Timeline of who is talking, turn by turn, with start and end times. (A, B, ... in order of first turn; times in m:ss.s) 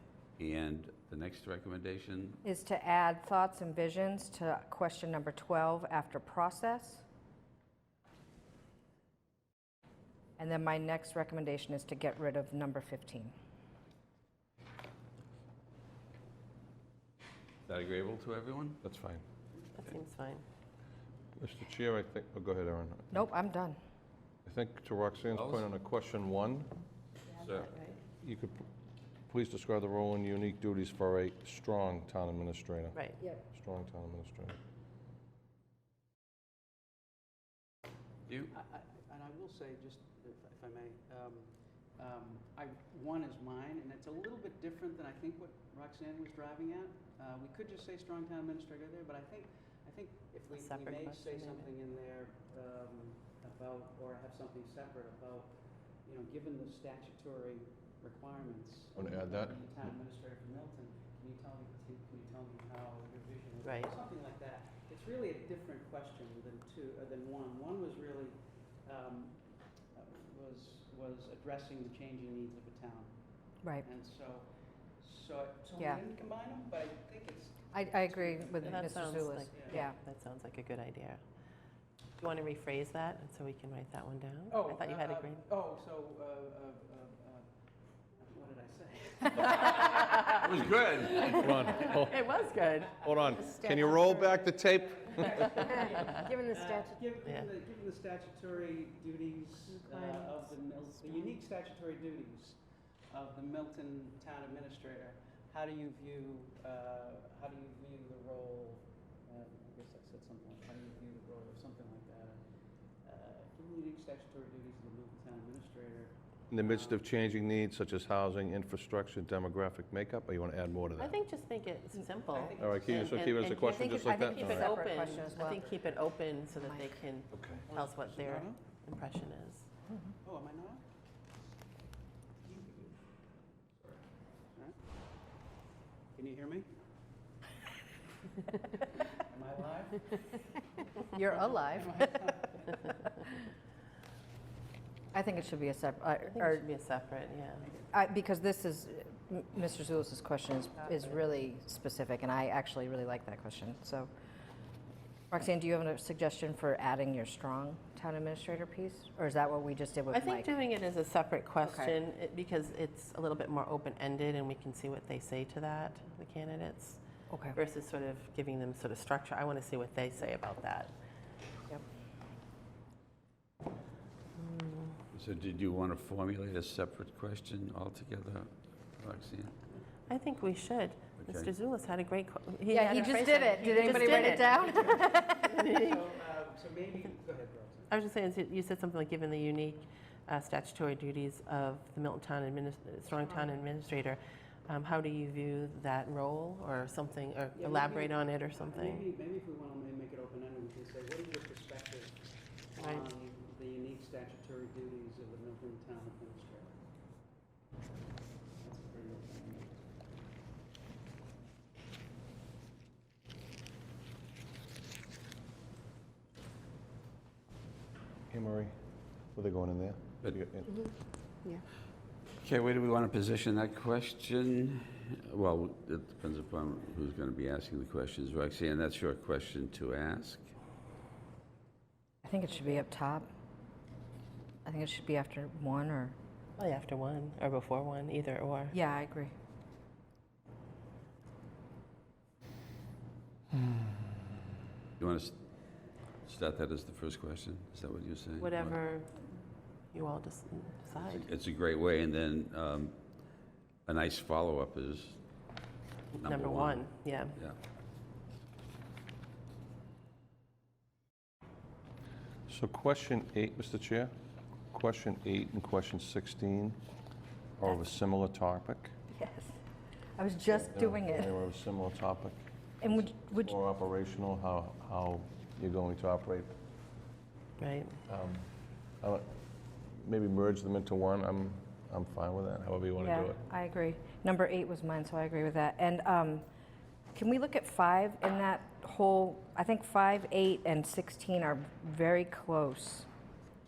0:00.4-0:02.4 A
0:02.4-0:07.0 B
0:10.4-0:13.3 B
0:17.7-0:18.8 A
0:18.8-0:19.2 C
0:19.8-0:20.4 D
0:21.4-0:23.2 C
0:23.1-0:23.8 B
0:24.4-0:26.7 C
0:25.3-0:25.7 A
0:27.4-0:27.7 A
0:27.6-0:28.0 D
0:28.2-0:28.6 C
0:29.3-0:34.6 C
0:32.9-0:33.3 D
0:38.3-0:38.5 A
0:38.5-1:13.2 E
0:50.5-0:51.7 D
0:59.0-0:59.5 C
1:03.6-1:03.9 D
1:13.8-1:14.5 E
1:15.0-1:19.8 E
1:15.7-1:16.0 B
1:17.7-1:20.0 B
1:18.6-1:21.2 D
1:22.2-1:25.4 D
1:24.5-1:27.5 E
1:28.2-1:31.8 E
1:29.5-1:30.4 D
1:30.3-1:31.7 A
1:31.0-1:33.6 D
1:31.3-1:32.2 C
1:33.0-1:35.6 C
1:33.2-1:33.8 E
1:35.2-1:52.4 E
1:39.7-1:40.5 D
1:53.0-1:57.0 E
1:56.5-2:01.2 C
2:01.0-2:09.7 D
2:02.3-2:03.4 E
2:02.6-2:04.7 C
2:03.6-2:05.8 B
2:07.3-2:07.6 C
2:07.7-2:08.6 E
2:10.2-2:10.8 E
2:12.4-2:13.0 E
2:16.2-2:16.7 E
2:19.1-2:20.4 E
2:21.1-2:22.0 B
2:21.4-2:22.8 E
2:25.1-2:26.7 B
2:26.3-2:27.8 D
2:27.9-2:34.1 B
2:35.3-2:40.5 B
2:40.1-2:47.0 D
2:41.7-2:41.9 B
2:47.3-2:47.6 B
2:47.5-2:51.0 D
2:54.4-2:55.0 D
2:55.1-2:59.6 A
3:00.1-3:06.0 D
3:01.2-3:01.5 A
3:02.7-3:05.6 B
3:03.9-3:05.0 E
3:05.6-3:07.9 E
3:07.9-3:19.1 D
3:17.6-3:22.2 E
3:22.8-3:26.7 E
3:22.8-3:23.1 D
3:28.6-3:29.8 E
3:38.3-3:40.7 C
3:42.4-3:50.5 A
3:52.2-3:53.3 B
3:54.6-3:56.2 B
3:56.6-3:58.8 D
3:58.7-3:59.3 B
4:05.0-4:05.4 A
4:06.2-4:08.8 A
4:08.4-4:09.4 D
4:09.9-4:11.3 D
4:11.0-4:13.0 A
4:13.9-4:15.2 A
4:16.1-4:17.4 D
4:16.2-4:17.6 A
4:22.5-4:24.1 C
4:24.7-4:26.8 C
4:27.6-4:28.9 C
4:29.1-4:29.6 B
4:30.2-4:31.4 B
4:30.5-4:36.5 C
4:32.8-4:33.5 B
4:37.6-4:38.0 D
4:38.1-4:43.4 C
4:43.0-4:46.4 B
4:47.1-4:53.1 B